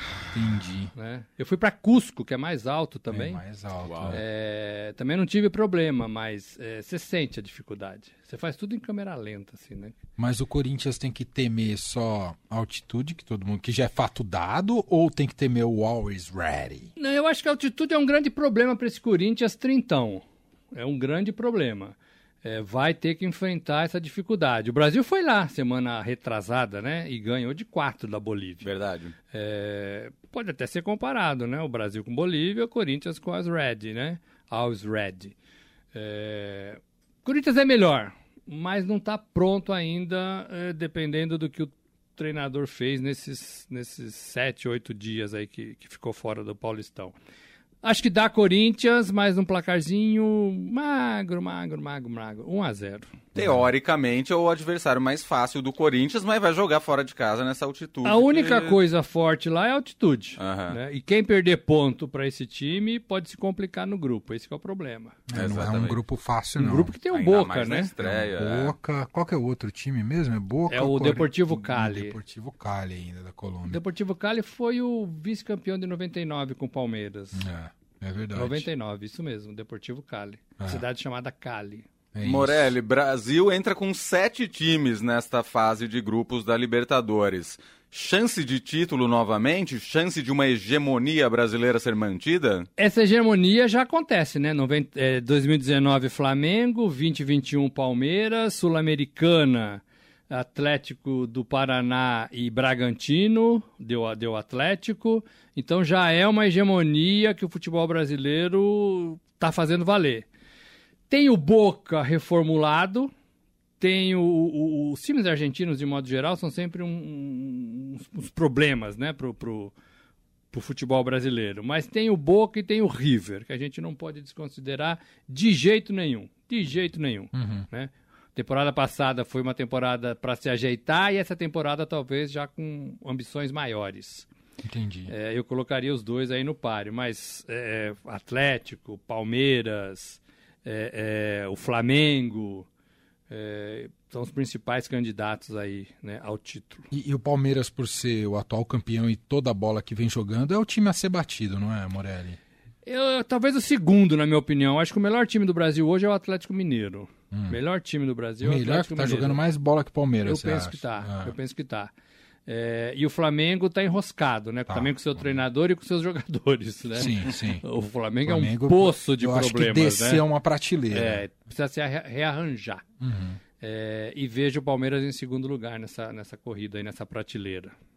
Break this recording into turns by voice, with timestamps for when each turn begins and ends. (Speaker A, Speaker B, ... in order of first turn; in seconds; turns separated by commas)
Speaker A: 0.3-0.9, Speaker B: 0.9-3.4, Speaker A: 3.1-4.2, Speaker C: 3.9-4.2, Speaker B: 4.1-10.0, Speaker A: 10.2-16.9, Speaker B: 17.0-28.7, Speaker C: 28.6-29.1, Speaker B: 29.3-35.4, Speaker B: 35.9-47.1, Speaker B: 47.8-53.1, Speaker C: 53.4-58.8, Speaker A: 53.4-53.7, Speaker B: 58.0-65.2, Speaker C: 60.4-60.8, Speaker A: 65.3-67.0, Speaker C: 65.3-66.0, Speaker B: 66.6-67.9, Speaker C: 67.1-68.8, Speaker A: 68.0-73.8, Speaker B: 70.7-72.2, Speaker B: 73.7-77.5, Speaker A: 77.3-78.7, Speaker B: 78.3-81.9, Speaker A: 80.6-80.8, Speaker A: 82.1-82.8, Speaker C: 82.2-92.7, Speaker B: 92.8-110.3, Speaker B: 111.1-113.1, Speaker B: 113.8-119.7, Speaker B: 120.5-134.3, Speaker A: 127.3-127.7, Speaker A: 134.6-135.1, Speaker B: 135.1-142.7, Speaker B: 143.3-146.9, Speaker A: 146.9-152.4, Speaker B: 152.8-159.4, Speaker A: 157.3-157.6, Speaker A: 158.4-161.3, Speaker B: 160.2-161.9, Speaker B: 162.5-170.2, Speaker A: 164.7-165.4, Speaker A: 166.9-167.7, Speaker A: 168.2-171.2, Speaker B: 170.9-172.8, Speaker A: 173.0-173.4, Speaker B: 173.6-177.7